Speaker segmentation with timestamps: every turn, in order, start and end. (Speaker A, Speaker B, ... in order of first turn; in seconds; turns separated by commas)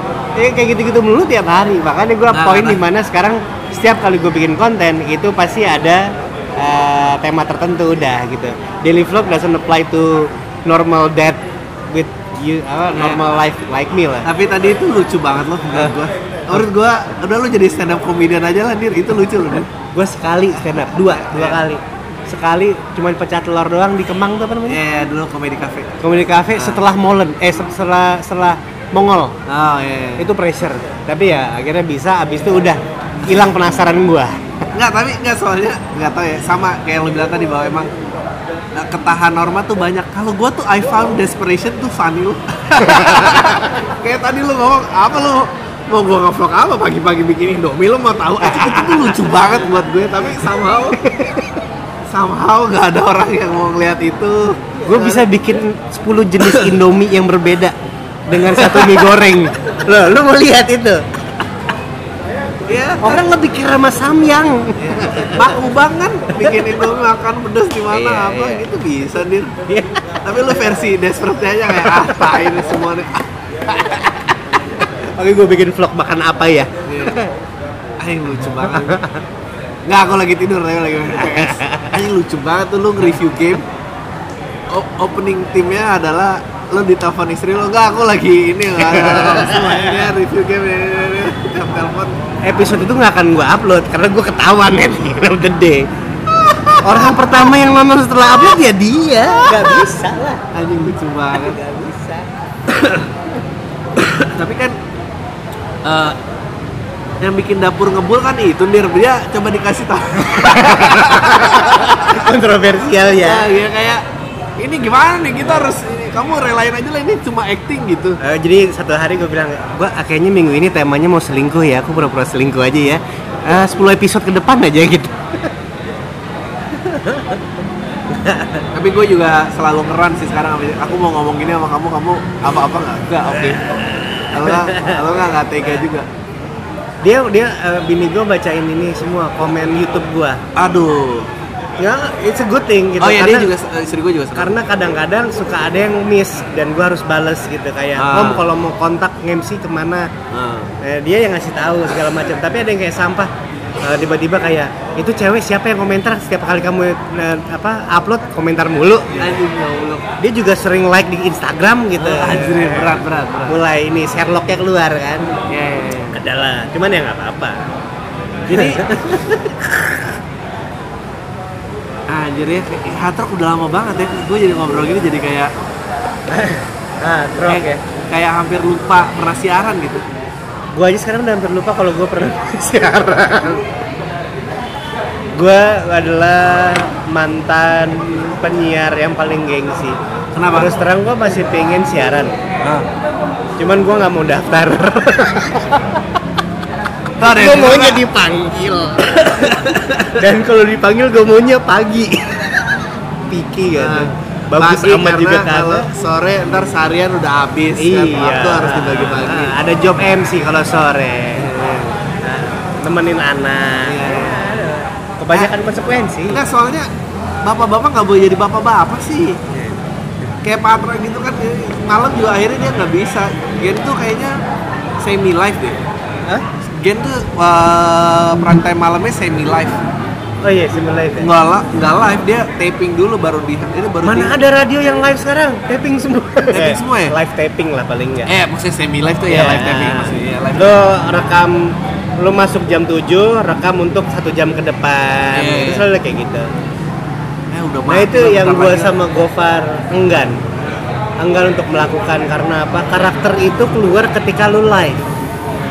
Speaker A: 0.3-14.3, Speaker B: 2.3-2.8, Speaker B: 12.9-13.2, Speaker B: 14.2-19.7, Speaker A: 19.9-24.8, Speaker B: 21.3-21.6, Speaker B: 24.7-25.9, Speaker A: 26.0-29.4, Speaker B: 26.5-26.8, Speaker B: 29.5-30.3, Speaker A: 30.2-34.4, Speaker B: 34.7-37.9, Speaker B: 38.7-51.1, Speaker A: 42.8-43.4, Speaker A: 48.4-49.2, Speaker A: 51.0-51.5, Speaker B: 52.1-55.2, Speaker A: 54.9-57.7, Speaker B: 56.4-56.7, Speaker A: 58.3-61.0, Speaker B: 58.4-59.1, Speaker B: 62.7-63.2, Speaker A: 63.0-65.6, Speaker B: 64.8-69.6, Speaker A: 66.3-66.8, Speaker A: 67.9-68.7, Speaker A: 69.7-70.0, Speaker B: 70.2-74.4, Speaker A: 71.8-72.2, Speaker A: 74.8-77.3, Speaker B: 76.8-77.2, Speaker B: 78.0-79.0, Speaker A: 78.7-79.2, Speaker B: 79.9-83.7, Speaker A: 81.2-82.0, Speaker B: 84.7-92.2, Speaker A: 88.8-90.1, Speaker A: 92.4-95.9, Speaker B: 96.3-97.4, Speaker A: 96.8-100.4, Speaker B: 99.3-99.9, Speaker B: 100.5-101.6, Speaker A: 101.3-102.3, Speaker B: 102.7-103.1, Speaker B: 104.2-104.8, Speaker B: 105.8-106.2, Speaker B: 107.2-112.3, Speaker A: 110.3-113.5, Speaker B: 112.9-114.0, Speaker B: 114.6-118.2, Speaker A: 115.4-115.7, Speaker A: 118.2-125.5, Speaker A: 126.7-127.4, Speaker A: 128.1-128.7, Speaker B: 128.7-136.1, Speaker A: 133.1-135.0, Speaker A: 135.6-135.8, Speaker A: 137.0-140.4, Speaker B: 140.6-141.3, Speaker A: 141.8-143.5, Speaker B: 143.0-144.5, Speaker A: 144.3-150.1, Speaker B: 148.0-148.4, Speaker B: 150.3-150.7, Speaker A: 150.8-153.3, Speaker A: 153.8-159.4, Speaker B: 159.1-160.1, Speaker A: 160.2-165.3, Speaker B: 162.0-163.6, Speaker B: 165.5-166.2, Speaker A: 166.1-167.6, Speaker B: 168.5-169.2, Speaker A: 168.5-169.6, Speaker B: 172.1-175.5, Speaker A: 176.3-177.8, Speaker B: 177.5-180.0, Speaker A: 180.7-183.7, Speaker A: 185.3-190.0, Speaker B: 190.3-190.7, Speaker A: 190.5-192.3, Speaker A: 193.6-196.0, Speaker B: 197.2-198.0, Speaker A: 197.2-205.9, Speaker B: 199.1-200.2, Speaker B: 203.7-209.5, Speaker A: 207.8-211.5, Speaker B: 211.3-212.1, Speaker A: 212.2-216.4, Speaker B: 213.8-214.5, Speaker B: 216.3-216.9, Speaker B: 217.4-219.5, Speaker B: 220.4-224.4, Speaker B: 225.0-225.8, Speaker B: 226.6-229.8, Speaker A: 230.4-231.3, Speaker B: 231.2-234.3, Speaker A: 234.0-238.3, Speaker B: 236.5-237.1, Speaker B: 238.2-240.8, Speaker A: 239.3-246.5, Speaker B: 245.3-245.9, Speaker B: 247.5-248.9, Speaker A: 247.9-250.4, Speaker A: 251.2-255.0